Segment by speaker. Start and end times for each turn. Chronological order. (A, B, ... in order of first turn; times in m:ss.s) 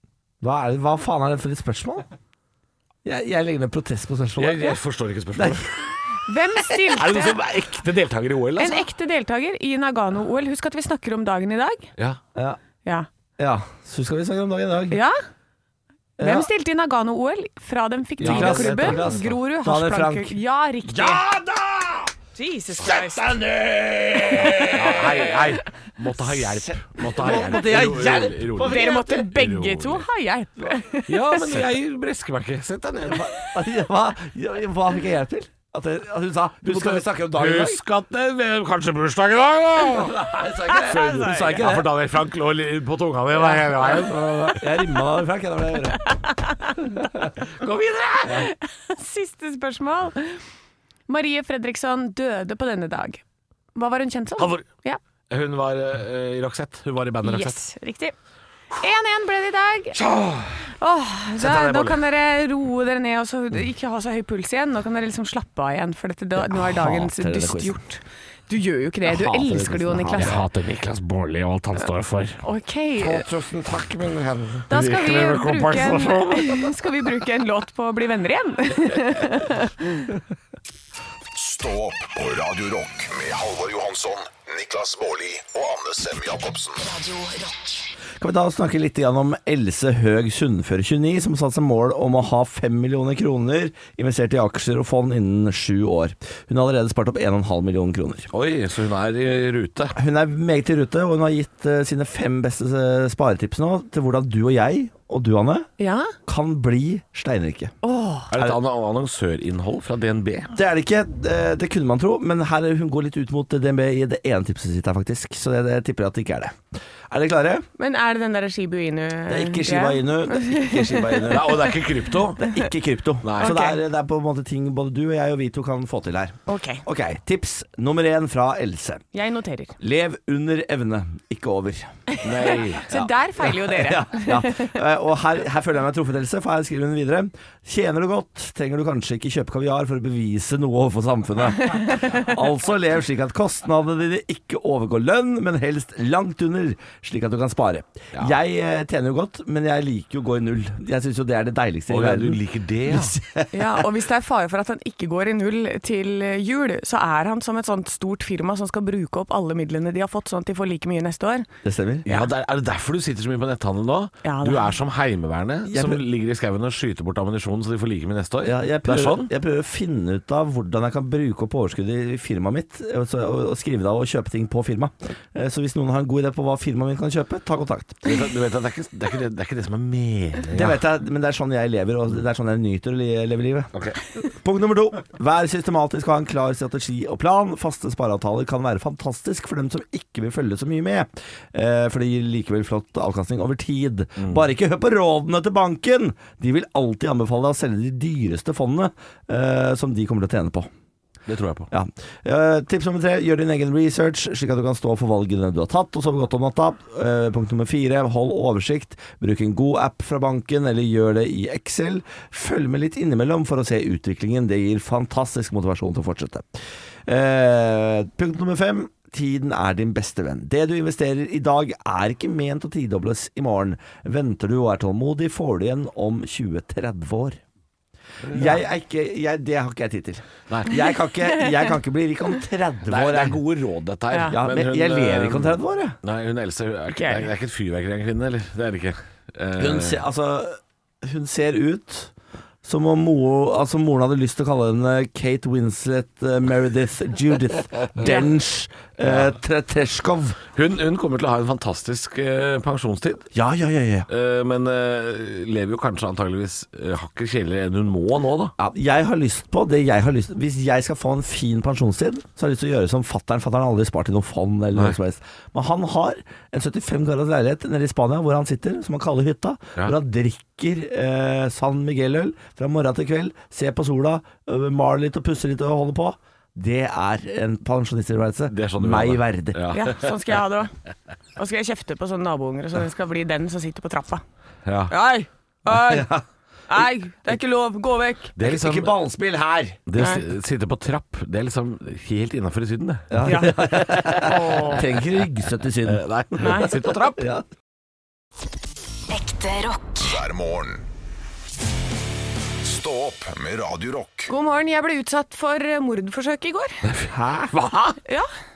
0:00.4-0:02.1 A
0:03.0-0:04.8 A
0:04.4-0:06.0 B
0:05.3-0:05.6 A
0:06.2-0:07.4 C
0:07.0-0:08.9 B
0:08.6-0:11.9 C
0:13.4-0:15.0 A
0:14.9-0:15.2 C
0:16.2-0:16.5 A
0:16.2-0:21.2 C
0:18.2-0:22.1 A
0:18.2-0:19.3 B
0:22.3-0:23.3 C
0:22.8-0:25.5 A
0:24.3-0:25.0 C
0:24.6-0:30.0 B
0:26.4-0:29.3 A
0:28.6-0:31.6 C
0:31.1-0:33.4 B
0:33.1-0:37.8 A
0:36.6-0:40.3 B
0:39.9-0:41.9 A
0:40.6-0:41.7 C
0:40.8-0:44.8 B
0:43.8-0:46.1 A
0:46.0-0:47.0 C
0:47.6-0:48.5 B
0:48.3-0:50.4 C
0:51.1-0:53.2 C
0:53.7-0:55.0 C
0:54.4-0:54.6 B
0:55.3-0:57.6 B
0:57.2-0:58.1 C
0:58.8-1:00.0 C
0:59.9-1:00.6 B
1:00.8-1:10.4 C
1:01.4-1:02.0 B
1:06.4-1:07.8 A
1:09.3-1:09.6 B
1:09.5-1:10.4 A
1:10.1-1:12.4 B
1:12.4-1:13.3 C
1:13.0-1:14.7 A
1:14.7-1:19.9 C
1:14.7-1:16.7 B
1:21.3-1:26.8 D
1:26.8-1:27.9 E
1:28.2-1:38.3 A
1:38.3-1:40.0 B
1:39.9-1:45.7 A
1:45.8-1:46.2 C
1:46.2-1:47.7 A
1:47.8-1:48.3 C
1:48.3-1:50.5 B
1:50.5-1:57.6 A
1:57.8-2:01.6 C
1:59.3-2:01.7 A
2:01.3-2:02.5 B
2:02.4-2:09.0 A
2:03.2-2:03.5 B
2:03.4-2:03.8 C
2:06.5-2:06.8 C
2:09.1-2:09.8 C
2:09.8-2:12.0 A
2:12.1-2:14.8 C
2:12.2-2:13.0 B
2:12.9-2:33.8 A
2:21.8-2:22.2 C
2:31.9-2:33.2 B
2:33.5-2:41.5 C
2:41.6-2:42.1 A
2:42.0-2:49.3 B
2:44.2-2:44.7 C
2:45.7-2:46.0 A
2:48.4-2:58.1 A
2:58.0-3:00.8 B
3:00.5-3:20.7 A
3:03.7-3:04.0 B
3:21.3-3:21.7 B
3:21.7-3:36.5 A
3:37.0-3:47.4 A
3:48.2-3:48.6 B
3:48.3-3:53.4 A
3:52.9-4:00.0 B
3:54.1-3:54.4 C
3:54.3-3:56.0 A
3:56.9-3:57.3 C
3:59.6-4:02.1 A
4:02.6-4:10.4 A
4:09.0-4:09.3 B
4:10.5-4:13.3 B
4:13.3-4:14.1 A
4:14.1-4:18.5 B
4:18.6-4:39.6 A
4:38.5-4:40.1 B
4:39.7-4:40.7 C
4:41.4-4:44.2 C
4:44.6-4:44.9 B
4:44.9-4:46.1 C
4:45.7-4:46.2 A
4:46.7-4:48.3 C
4:48.4-4:49.0 B
4:48.4-4:49.8 A
4:49.9-4:53.2 B
4:50.0-4:50.2 C
4:53.1-4:57.4 A
4:53.2-4:54.8 C
4:54.3-4:55.0 B
4:55.8-4:57.2 B
4:56.4-4:56.7 C
4:59.1-5:00.2 E
5:00.0-5:00.8 D
5:02.6-5:04.3 D
5:04.3-5:06.8 C
5:06.8-5:08.0 B
5:07.1-5:07.5 A